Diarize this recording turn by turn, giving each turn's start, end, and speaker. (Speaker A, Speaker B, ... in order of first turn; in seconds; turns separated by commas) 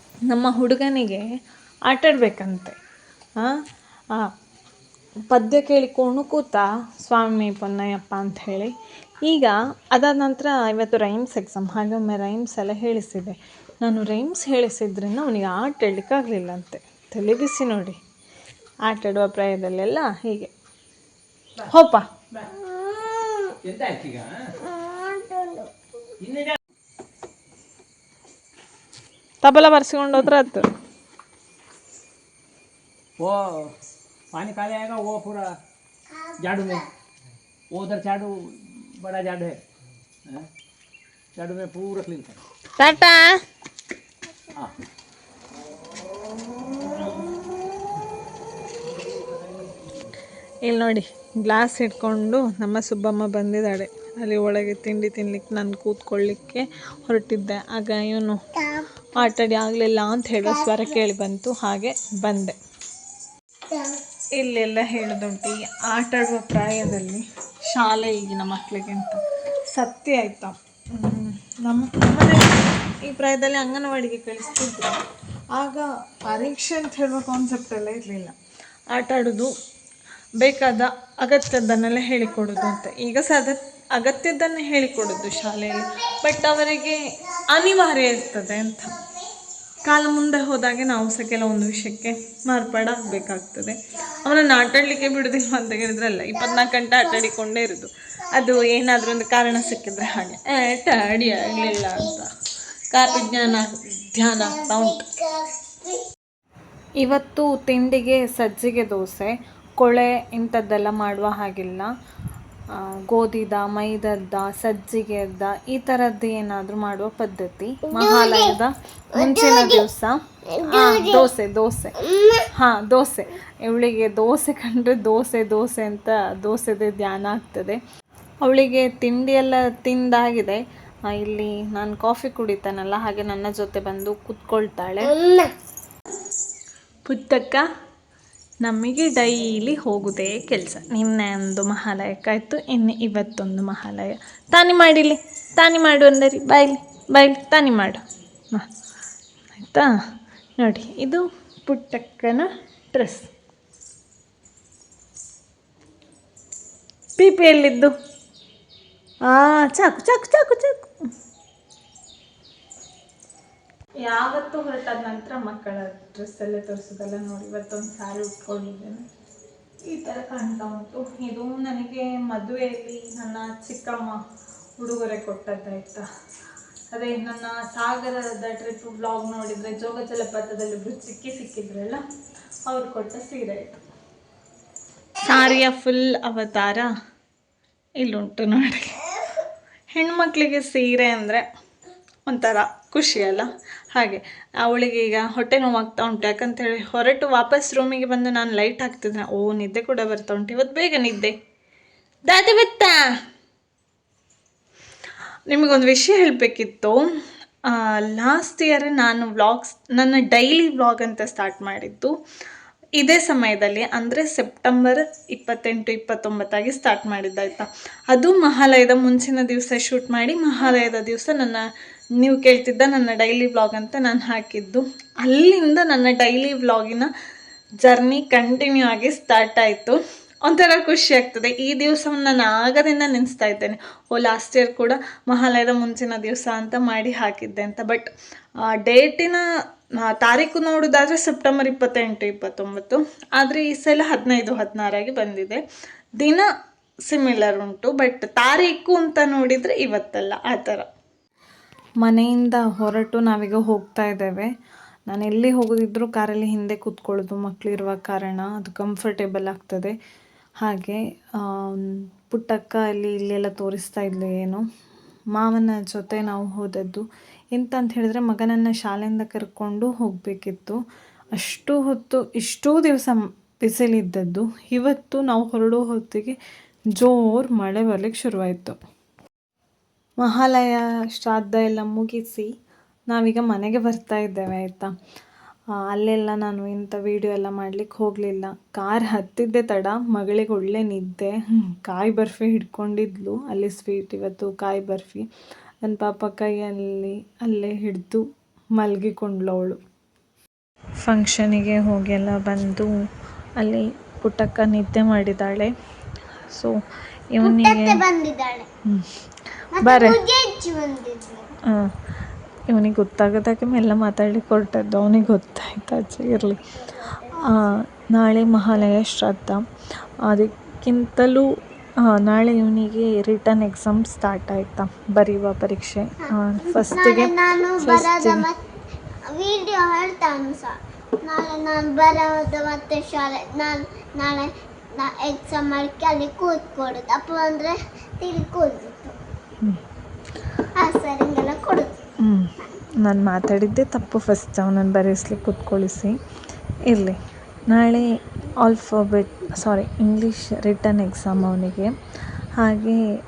Speaker A: 0.3-1.3, Speaker A: 1.9-2.8, Speaker A: 5.3-8.7, Speaker A: 9.3-18.0, Speaker A: 18.9-20.5, Speaker A: 21.6-22.1, Speaker B: 22.5-23.6, Speaker C: 23.6-24.5, Speaker B: 24.6-25.7, Speaker C: 26.2-26.6, Speaker A: 29.4-30.7, Speaker C: 33.2-33.8, Speaker C: 34.3-35.6, Speaker C: 36.4-36.9, Speaker C: 37.7-39.6, Speaker C: 41.4-42.4, Speaker A: 42.8-43.4, Speaker A: 50.7-58.4, Speaker B: 58.6-58.9, Speaker A: 59.2-62.6, Speaker B: 60.4-61.0, Speaker B: 63.7-64.0, Speaker A: 64.4-75.0, Speaker A: 75.6-78.4, Speaker A: 78.9-79.5, Speaker A: 80.4-89.0, Speaker A: 89.8-102.3, Speaker B: 101.4-102.1, Speaker A: 102.9-105.0, Speaker B: 103.1-103.6, Speaker B: 104.4-106.0, Speaker A: 107.0-111.9, Speaker A: 112.7-122.0, Speaker B: 117.9-118.5, Speaker B: 119.2-119.8, Speaker B: 120.5-121.3, Speaker B: 122.0-122.5, Speaker A: 122.5-127.8, Speaker A: 128.4-135.1, Speaker B: 135.0-135.5, Speaker A: 137.1-137.7, Speaker A: 138.6-148.0, Speaker A: 149.6-149.9, Speaker A: 150.6-153.3, Speaker A: 157.2-157.9, Speaker A: 159.3-160.9, Speaker A: 164.0-169.0, Speaker A: 169.9-174.2, Speaker A: 174.8-176.1, Speaker A: 176.9-182.0, Speaker A: 182.7-183.8, Speaker A: 185.2-186.9, Speaker A: 188.0-189.0, Speaker A: 189.9-191.4, Speaker A: 192.3-201.3, Speaker A: 202.3-203.0, Speaker A: 205.5-207.0, Speaker A: 207.7-212.1, Speaker A: 213.0-221.7, Speaker A: 222.2-227.1, Speaker A: 227.8-238.1, Speaker A: 238.7-239.4, Speaker A: 240.0-245.6, Speaker A: 246.2-246.5, Speaker A: 247.1-250.9, Speaker A: 252.0-254.5, Speaker A: 255.1-259.9, Speaker A: 260.6-264.6, Speaker A: 265.4-270.8, Speaker A: 271.4-276.4, Speaker A: 277.0-278.8, Speaker A: 280.2-282.5, Speaker A: 283.1-284.9, Speaker A: 285.8-295.3, Speaker A: 295.8-298.2, Speaker A: 298.8-299.8, Speaker A: 301.0-302.9, Speaker A: 303.6-305.7, Speaker A: 307.3-308.0, Speaker B: 307.4-308.7, Speaker B: 309.8-311.5, Speaker A: 309.8-310.2, Speaker A: 312.7-316.6, Speaker A: 317.4-319.6, Speaker A: 320.2-321.5, Speaker A: 322.0-328.5, Speaker B: 326.7-328.6, Speaker B: 329.3-339.2, Speaker B: 340.8-342.0, Speaker A: 342.2-342.5, Speaker A: 343.0-346.1, Speaker A: 346.9-347.2, Speaker A: 347.7-348.1, Speaker A: 348.6-351.9, Speaker A: 352.6-353.0